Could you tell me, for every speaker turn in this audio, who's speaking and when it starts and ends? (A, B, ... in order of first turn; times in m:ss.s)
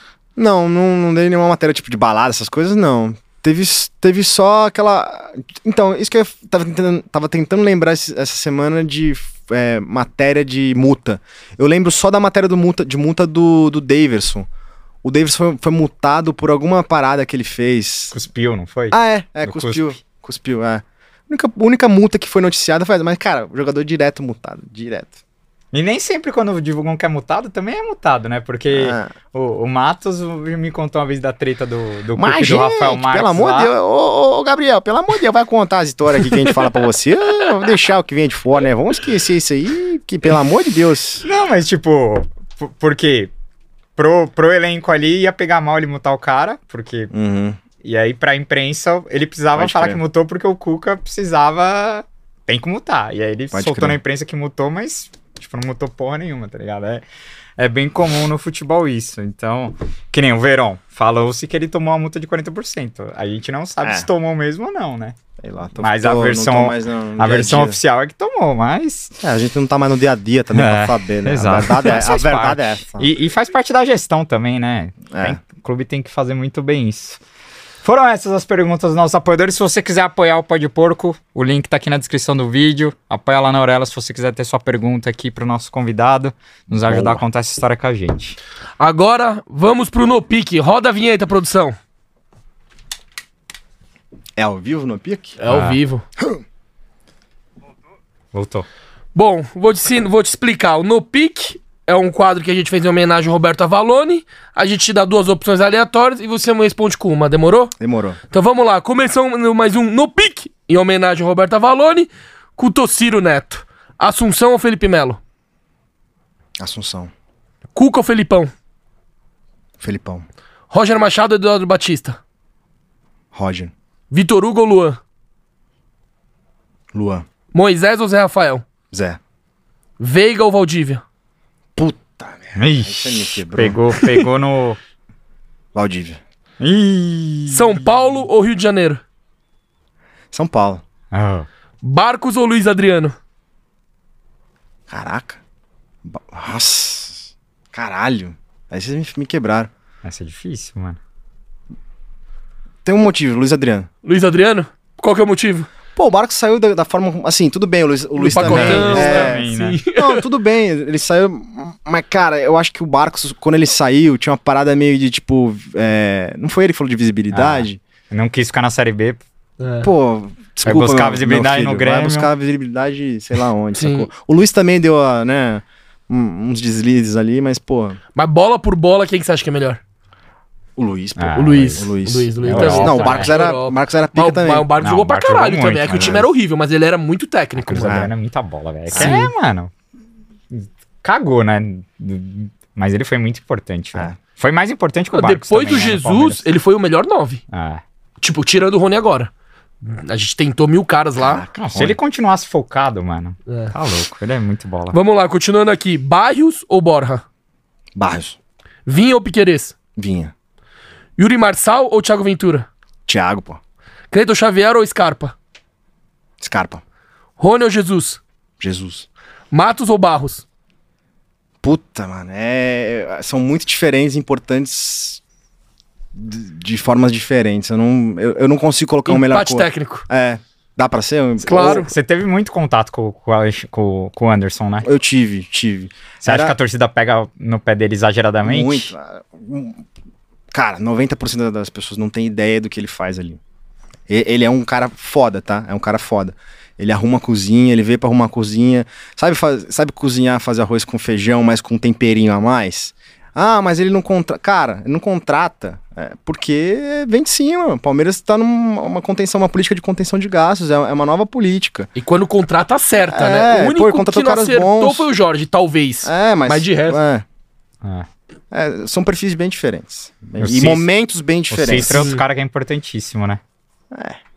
0:00.4-0:14.5 A
0:15.0-0:18.1 A
0:18.1-0:20.0 B
0:18.9-0:25.2 A
0:25.7-0:33.7 B
0:28.7-0:29.1 A
0:32.2-0:41.2 A
0:41.2-0:43.3 B
0:44.0-0:47.1 B
0:47.1-0:47.6 A
0:47.8-0:57.0 B
0:49.5-0:50.0 A
0:53.5-0:54.0 A
0:57.6-1:05.2 B
1:05.4-1:07.8 A
1:05.8-1:09.2 B
1:09.2-1:13.1 A
1:10.5-1:17.2 B
1:15.1-1:15.4 A
1:17.8-1:28.4 B
1:26.7-1:27.2 A
1:28.8-1:31.8 C
1:34.4-1:35.4 A
1:35.4-1:36.0 C
1:35.5-1:35.8 B
1:38.3-1:38.6 B
1:39.1-1:47.7 C
1:47.8-1:48.2 A
1:48.3-1:55.2 C
1:56.6-1:57.1 A
1:57.7-1:58.5 C
1:59.8-2:00.2 A
2:00.7-2:02.2 C
2:03.3-2:03.7 A
2:04.1-2:05.0 C
2:06.9-2:07.2 A
2:07.5-2:08.6 C
2:08.9-2:09.2 A
2:10.0-2:11.0 C
2:11.8-2:14.2 A
2:12.6-2:14.8 B
2:15.7-2:16.2 A
2:16.6-2:18.1 B
2:17.5-2:19.0 C
2:20.3-2:20.8 A
2:21.1-2:21.5 B
2:21.8-2:23.1 C
2:24.9-2:25.4 A
2:26.0-2:29.7 A
2:30.0-2:31.0 B
2:32.8-2:33.9 A
2:34.0-2:35.7 C
2:36.0-2:47.8 A
2:38.2-2:40.2 C
2:38.3-2:39.8 B
2:47.3-2:49.2 B
2:49.6-2:49.9 C
2:49.8-2:58.0 A
2:50.6-2:52.3 B
2:53.8-2:54.1 C
2:58.1-2:59.8 C
3:00.8-3:04.7 A
3:01.2-3:01.9 B
3:01.4-3:08.0 C
3:02.4-3:03.4 B
3:04.8-3:06.3 B
3:07.6-3:09.7 B
3:07.7-3:08.1 A
3:08.9-3:09.3 A
3:08.9-3:09.2 C
3:10.5-3:16.4 B
3:15.1-3:17.4 C
3:17.5-3:17.8 B
3:18.2-3:19.3 C
3:19.8-3:21.4 C
3:21.2-3:22.0 A
3:21.6-3:25.0 B
3:23.5-3:23.7 C
3:24.9-3:27.2 C
3:27.9-3:28.4 A
3:28.8-3:29.8 C
3:30.0-3:30.3 A
3:31.2-3:32.7 C
3:33.1-3:33.6 A
3:34.1-3:35.4 C
3:36.4-3:36.8 A
3:37.4-3:38.2 C
3:38.6-3:39.1 A
3:39.5-3:40.4 C
3:41.6-3:45.2 A
3:46.1-3:51.9 A
3:49.0-3:50.1 C
3:51.4-3:51.9 C
3:51.6-3:54.9 B
3:54.8-3:56.5 A
3:56.2-3:58.9 B
3:58.4-3:59.8 A
4:00.5-4:03.4 A
4:04.1-4:21.9 A
4:22.0-4:27.0 C
4:23.1-4:25.1 A
4:26.0-4:27.2 A
4:28.5-4:32.1 A
4:30.4-4:30.8 B
4:31.5-4:33.4 B
4:31.7-4:32.2 C
4:33.9-4:34.2 A